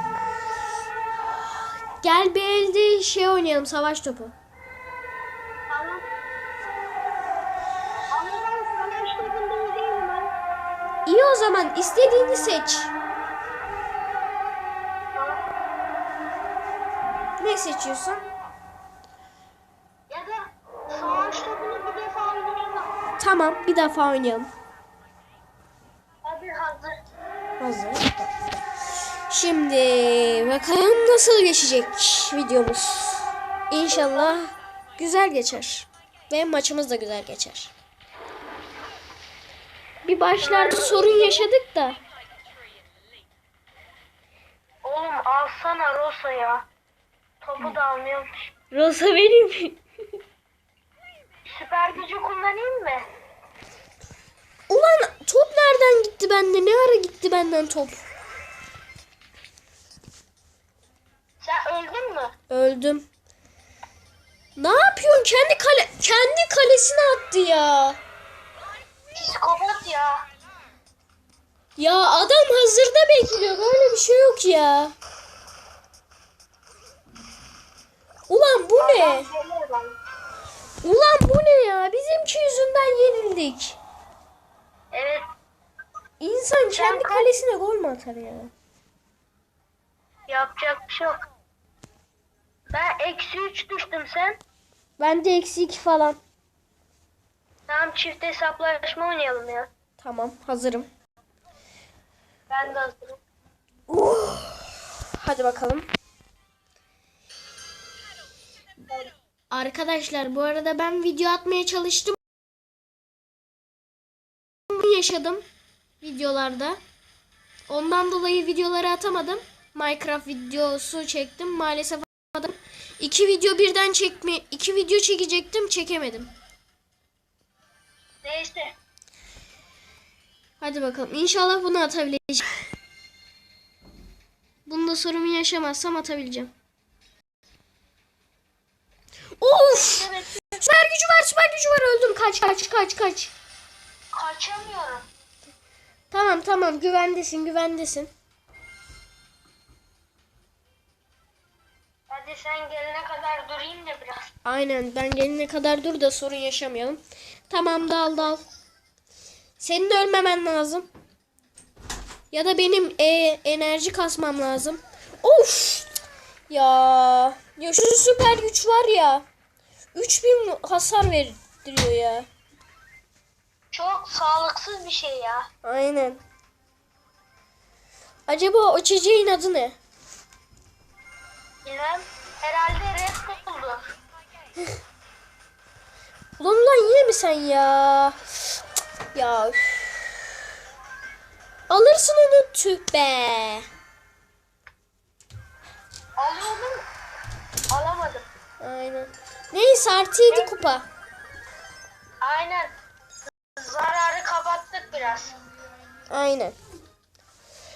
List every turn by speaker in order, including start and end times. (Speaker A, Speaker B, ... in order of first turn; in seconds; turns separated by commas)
Speaker A: 2.0-4.3, Speaker B: 5.7-6.0, Speaker B: 8.1-10.3, Speaker A: 11.1-12.9, Speaker B: 15.1-15.4, Speaker A: 17.4-18.2, Speaker B: 20.1-22.9, Speaker A: 23.2-24.5, Speaker B: 26.2-27.0, Speaker A: 27.6-28.3, Speaker A: 29.3-37.7, Speaker B: 33.9-34.4, Speaker A: 40.0-42.0, Speaker B: 40.4-41.5, Speaker B: 44.8-46.6, Speaker B: 47.4-48.5, Speaker A: 48.7-49.8, Speaker B: 51.5-53.1, Speaker A: 54.7-58.0, Speaker B: 61.4-62.3, Speaker A: 62.5-63.0, Speaker A: 64.6-68.0, Speaker B: 69.1-70.2, Speaker A: 71.8-74.9, Speaker A: 78.3-79.2, Speaker B: 78.8-79.9, Speaker A: 80.8-83.8, Speaker B: 84.9-85.2, Speaker A: 86.2-88.5, Speaker B: 86.7-87.3, Speaker B: 90.3-91.1, Speaker B: 92.7-94.4, Speaker A: 95.0-96.2, Speaker B: 97.7-99.7, Speaker A: 100.0-100.9, Speaker B: 102.5-103.2, Speaker A: 103.9-105.9, Speaker A: 109.5-112.2, Speaker A: 114.7-115.4, Speaker A: 116.0-116.8, Speaker A: 117.7-126.3, Speaker B: 128.2-128.7, Speaker A: 130.6-132.5, Speaker A: 134.7-136.5, Speaker A: 139.4-143.3, Speaker B: 139.8-140.4, Speaker B: 144.1-145.1, Speaker A: 146.1-148.1, Speaker B: 152.1-154.3, Speaker A: 154.4-158.4, Speaker A: 159.6-160.9, Speaker A: 162.3-165.9, Speaker A: 166.5-169.2, Speaker A: 169.9-172.3, Speaker B: 173.7-175.5, Speaker A: 175.6-176.2, Speaker A: 178.3-179.8, Speaker B: 181.6-183.9, Speaker A: 186.4-188.2, Speaker A: 189.1-190.0, Speaker A: 191.7-193.7, Speaker B: 196.2-196.8, Speaker B: 197.7-198.2, Speaker A: 198.6-200.8, Speaker B: 200.3-200.7, Speaker B: 202.2-202.7, Speaker B: 203.6-205.4, Speaker A: 206.1-206.5